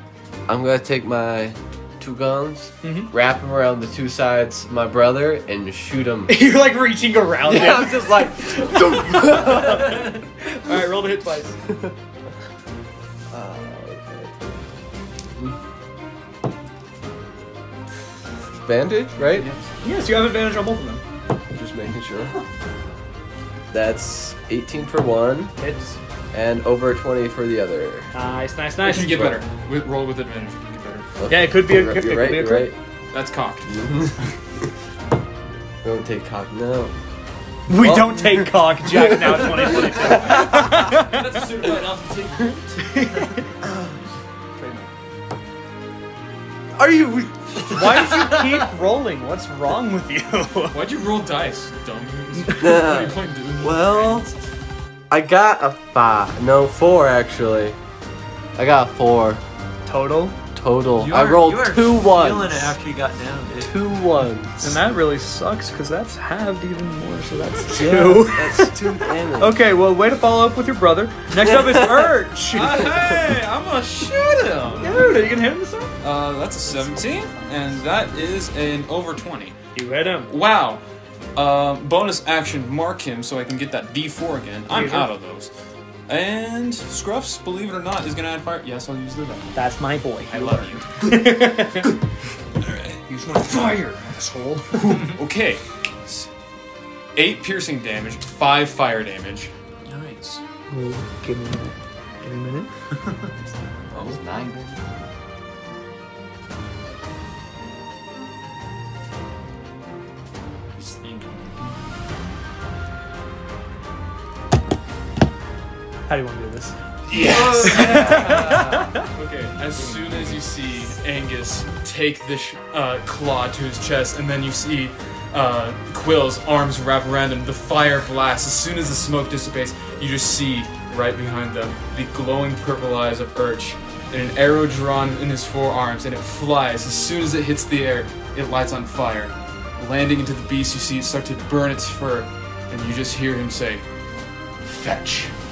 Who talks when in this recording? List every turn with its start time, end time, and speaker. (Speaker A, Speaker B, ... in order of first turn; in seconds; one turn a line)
Speaker A: 0.5-6.4
Speaker B: 2.8-3.1
Speaker B: 6.3-11.6
Speaker A: 7.4-10.1
Speaker A: 13.3-14.4
Speaker A: 18.6-19.5
Speaker B: 19.8-21.0
Speaker A: 21.5-22.3
Speaker A: 23.7-25.6
Speaker B: 25.6-26.0
Speaker A: 26.3-28.1
Speaker B: 28.1-29.3
Speaker C: 28.8-31.1
Speaker A: 29.1-29.3
Speaker A: 31.2-32.8
Speaker B: 31.3-32.7
Speaker C: 33.1-33.9
Speaker A: 33.7-34.2
Speaker A: 35.8-36.9
Speaker B: 37.7-41.4
Speaker A: 37.7-39.5
Speaker C: 39.9-43.0
Speaker B: 42.9-43.4
Speaker B: 47.6-50.8
Speaker C: 50.7-54.4
Speaker A: 52.6-53.2
Speaker D: 53.6-54.2
Speaker A: 55.1-57.8
Speaker A: 58.5-59.4
Speaker B: 59.9-60.4
Speaker A: 60.5-62.8
Speaker E: 61.0-64.1
Speaker A: 63.6-64.5
Speaker B: 64.6-68.8
Speaker A: 67.7-69.6
Speaker B: 69.3-73.0
Speaker C: 72.5-75.2
Speaker B: 74.8-76.0
Speaker C: 76.0-79.5
Speaker B: 79.7-80.3
Speaker C: 80.3-80.8
Speaker C: 81.3-85.5
Speaker B: 84.7-85.1
Speaker C: 86.1-89.7
Speaker B: 89.5-92.0
Speaker C: 90.3-91.1
Speaker C: 92.6-93.0
Speaker B: 93.1-95.0
Speaker C: 94.8-96.3
Speaker C: 97.1-99.5
Speaker E: 99.8-100.4
Speaker B: 100.7-102.7
Speaker D: 103.9-105.0
Speaker E: 103.9-104.2
Speaker E: 110.7-111.8
Speaker B: 116.1-116.7
Speaker C: 117.1-143.8
Speaker D: 117.2-118.3
Speaker B: 117.6-119.0
Speaker E: 119.7-120.4
Speaker C: 144.6-145.3